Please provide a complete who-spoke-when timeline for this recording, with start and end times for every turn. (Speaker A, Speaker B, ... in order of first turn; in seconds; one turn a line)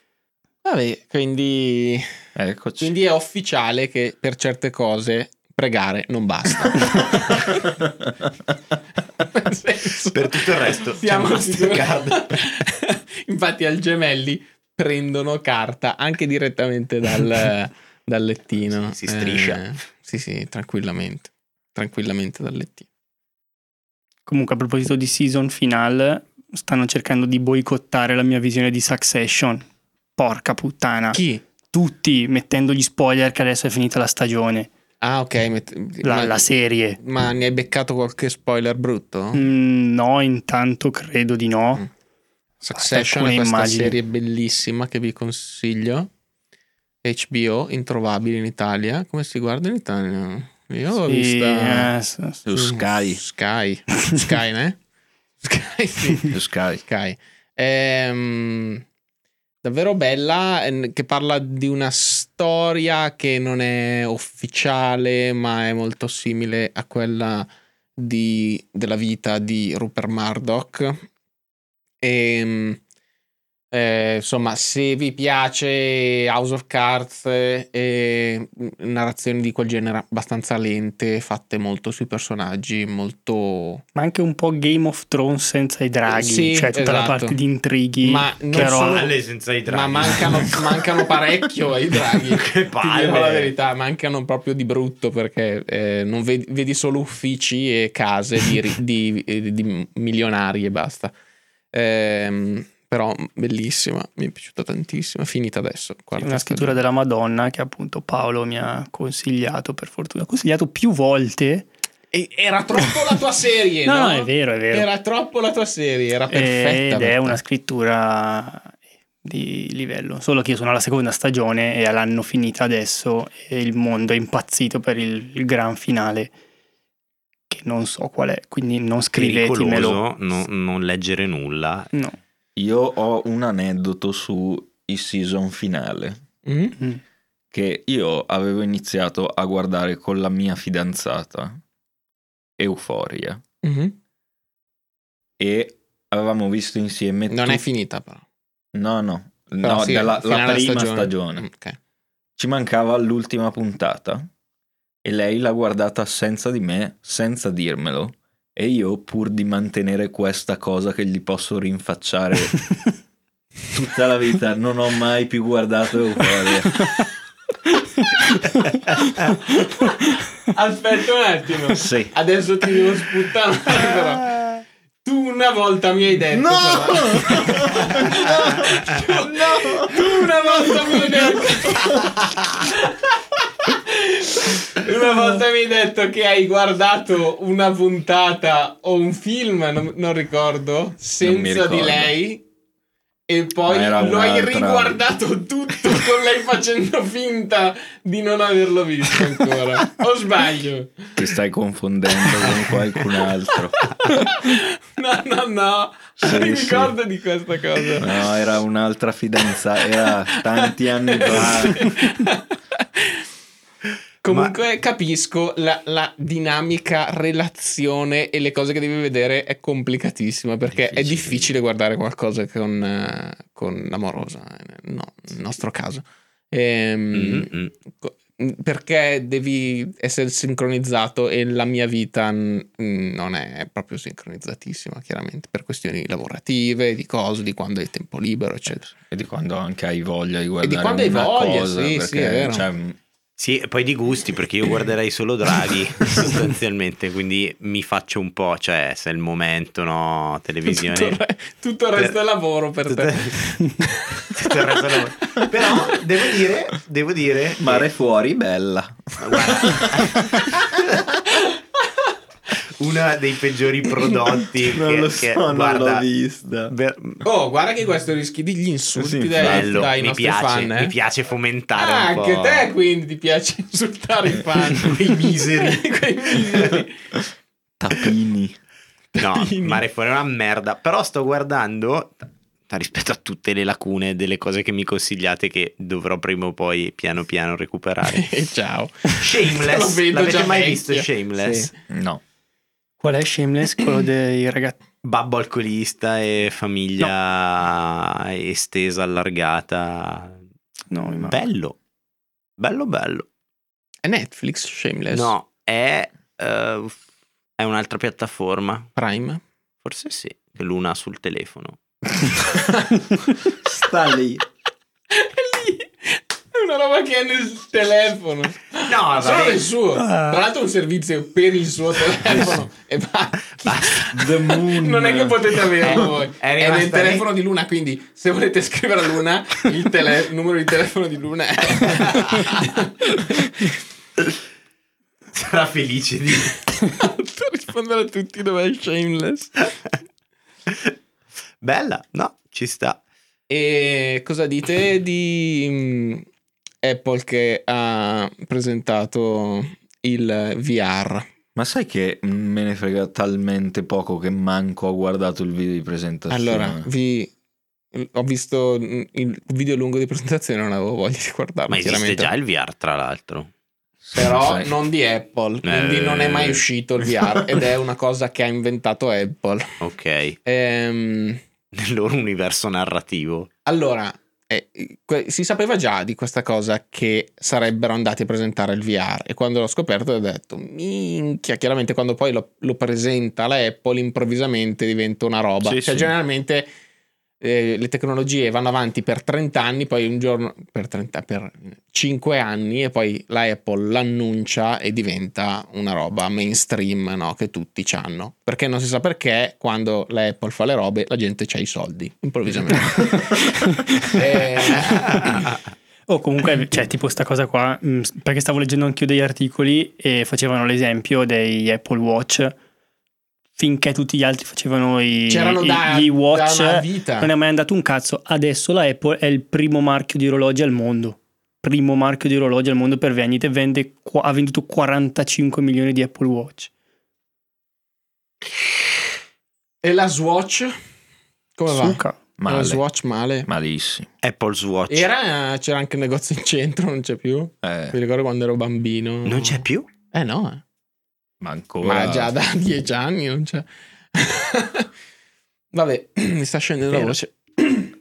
Speaker A: 0.6-2.1
Speaker B: 2.4-3.0
Speaker A: 2.8-7.8
Speaker A: 9.2-22.9
Speaker C: 10.1-12.4
Speaker C: 18.9-19.6
Speaker D: 24.3-29.7
Speaker D: 30.2-31.2
Speaker A: 31.1-31.4
Speaker D: 31.7-34.7
Speaker A: 35.0-36.5
Speaker D: 36.0-37.0
Speaker A: 37.0-39.5
Speaker D: 39.3-41.9
Speaker A: 42.6-46.1
Speaker D: 42.7-44.0
Speaker A: 47.0-51.9
Speaker D: 51.1-52.4
Speaker B: 52.5-53.2
Speaker A: 52.5-54.8
Speaker A: 55.4-58.8
Speaker B: 56.3-56.8
Speaker A: 59.6-71.0
Speaker A: 72.0-72.8
Speaker A: 73.7-83.8
Speaker D: 84.0-89.0
Speaker A: 86.1-87.4
Speaker A: 88.0-89.1
Speaker C: 88.5-91.1
Speaker A: 89.7-101.1
Speaker C: 92.1-93.5
Speaker A: 101.7-106.8
Speaker D: 106.2-111.7
Speaker A: 112.1-117.4
Speaker D: 113.8-114.9
Speaker D: 116.3-126.3
Speaker D: 127.5-130.0
Speaker C: 129.2-131.9
Speaker B: 132.6-136.2
Speaker A: 136.5-136.8
Speaker B: 137.5-141.6
Speaker B: 142.6-143.4
Speaker A: 143.6-143.9
Speaker B: 145.4-147.6
Speaker A: 147.3-148.2
Speaker B: 148.7-151.4
Speaker A: 149.6-151.8
Speaker B: 152.4-154.3
Speaker B: 155.0-162.7
Speaker B: 163.7-166.9
Speaker A: 170.4-174.4
Speaker B: 171.8-172.1
Speaker A: 175.0-192.4
Speaker B: 176.3-182.1
Speaker B: 191.2-192.2
Speaker A: 193.3-201.1
Speaker B: 193.7-195.0
Speaker B: 201.2-203.9
Speaker A: 204.1-208.3
Speaker B: 206.2-206.9
Speaker B: 208.0-212.0
Speaker A: 210.0-213.2
Speaker A: 214.2-238.9
Speaker C: 214.3-214.6
Speaker B: 220.8-221.4
Speaker C: 227.1-227.7
Speaker B: 238.7-243.0
Speaker A: 240.6-242.7
Speaker C: 243.4-251.2
Speaker A: 250.7-255.9
Speaker C: 252.9-253.6
Speaker C: 254.3-257.9
Speaker B: 257.6-260.8
Speaker C: 259.2-260.8
Speaker C: 262.8-266.1
Speaker B: 264.6-266.7
Speaker C: 266.7-267.2
Speaker A: 267.2-270.9
Speaker B: 268.9-269.9
Speaker C: 269.4-272.7
Speaker A: 271.8-276.9
Speaker C: 274.8-275.8
Speaker B: 277.8-278.6
Speaker A: 279.1-279.8
Speaker C: 279.2-288.3
Speaker A: 288.1-291.7
Speaker C: 289.1-291.7
Speaker B: 291.9-292.2
Speaker D: 293.0-294.8
Speaker C: 295.0-300.4
Speaker D: 300.9-301.4
Speaker C: 301.2-301.8
Speaker C: 302.6-303.3
Speaker A: 304.0-305.3
Speaker C: 305.1-307.0
Speaker C: 307.6-308.9
Speaker A: 309.0-309.4
Speaker C: 309.8-311.8
Speaker A: 312.5-313.0
Speaker B: 313.6-314.4
Speaker A: 315.1-333.7
Speaker C: 318.9-319.7
Speaker D: 320.0-320.4
Speaker B: 322.3-322.6
Speaker B: 324.1-326.0
Speaker C: 325.8-327.3
Speaker C: 332.1-332.6
Speaker C: 335.3-336.7
Speaker A: 336.9-339.7
Speaker C: 341.6-343.0
Speaker A: 343.5-346.3
Speaker A: 346.8-351.3
Speaker B: 351.6-356.9
Speaker A: 356.3-357.3
Speaker A: 357.9-362.3
Speaker C: 361.7-363.5
Speaker B: 364.0-364.7
Speaker A: 364.2-369.7
Speaker C: 365.6-366.6
Speaker C: 369.8-370.4
Speaker A: 370.4-371.4
Speaker C: 371.7-373.5
Speaker A: 373.7-386.7
Speaker B: 385.6-386.1
Speaker A: 387.4-405.5
Speaker D: 403.7-404.2
Speaker D: 406.1-412.6
Speaker D: 413.6-426.7
Speaker A: 415.3-417.3
Speaker A: 429.8-430.8
Speaker A: 431.6-433.5
Speaker D: 431.7-432.2
Speaker B: 432.4-432.8
Speaker B: 433.5-434.1
Speaker C: 434.2-435.1
Speaker A: 434.9-440.6
Speaker B: 437.6-438.0
Speaker C: 439.3-439.9
Speaker B: 441.4-442.3
Speaker A: 441.8-444.9
Speaker A: 445.7-447.9